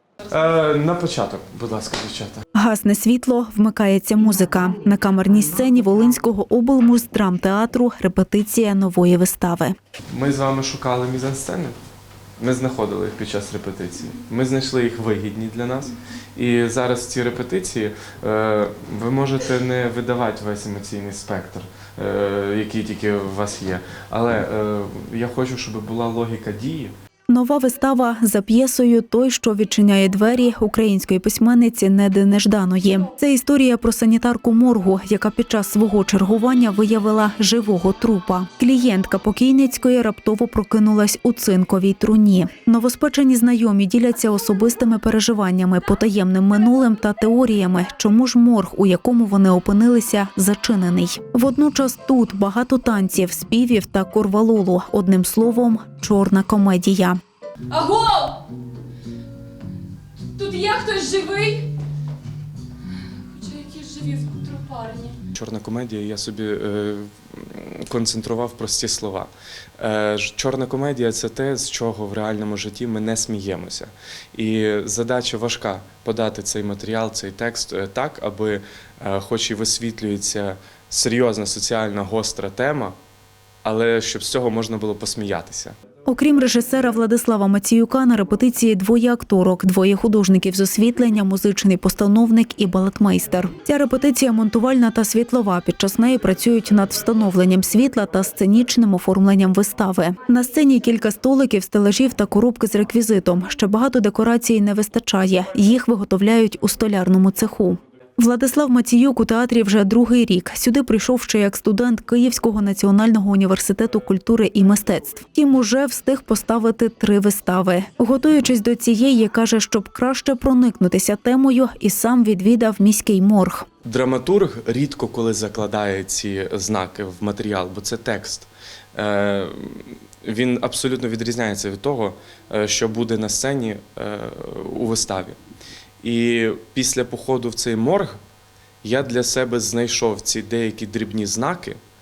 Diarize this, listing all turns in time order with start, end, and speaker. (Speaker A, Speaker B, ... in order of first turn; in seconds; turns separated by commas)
Speaker A: 0.3-2.4, Speaker B: 2.5-9.8, Speaker A: 10.1-11.8, Speaker A: 12.4-26.9, Speaker B: 27.3-57.2, Speaker C: 57.7-58.4, Speaker C: 60.3-61.7, Speaker C: 63.3-65.2, Speaker A: 65.3-83.0, Speaker A: 83.6-85.7, Speaker B: 86.0-123.7, Speaker A: 123.8-135.4, Speaker A: 136.0-138.2, Speaker A: 138.8-141.8